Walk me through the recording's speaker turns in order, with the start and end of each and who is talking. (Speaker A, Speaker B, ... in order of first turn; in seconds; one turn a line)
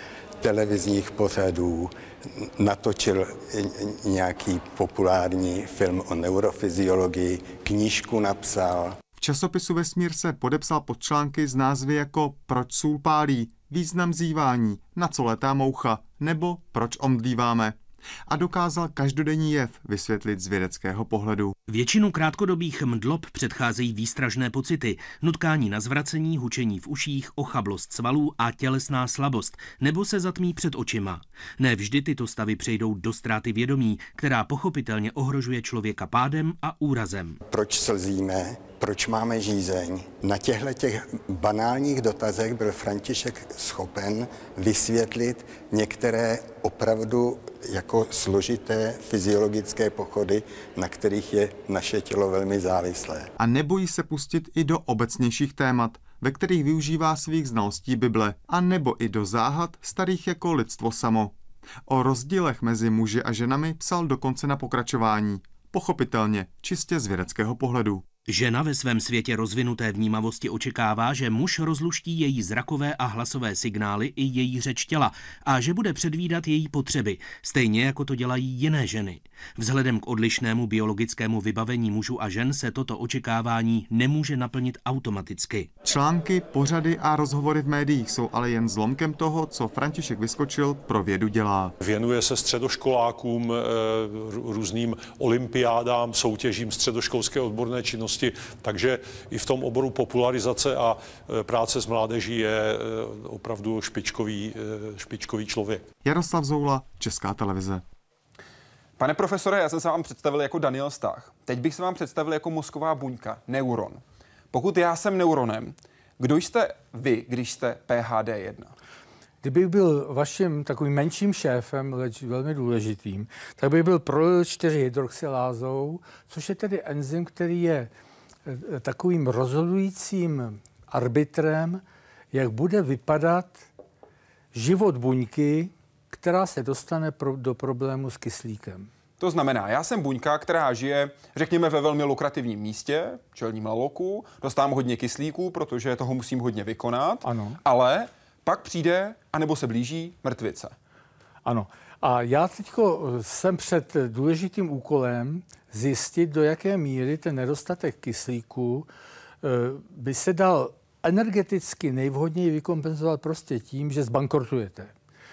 Speaker A: 0.4-9.0
Speaker B: 9.2-21.6
Speaker C: 21.7-37.4
Speaker A: 37.5-53.3
Speaker B: 53.4-68.1
Speaker C: 68.3-85.7
Speaker B: 85.8-91.8
Speaker D: 91.8-105.9
Speaker B: 106.0-107.8
Speaker E: 109.0-118.7
Speaker F: 119.4-127.9
Speaker F: 128.5-133.7
Speaker F: 134.5-138.9
Speaker E: 139.2-150.7
Speaker F: 147.2-147.6
Speaker F: 151.4-158.9
Speaker F: 159.4-164.9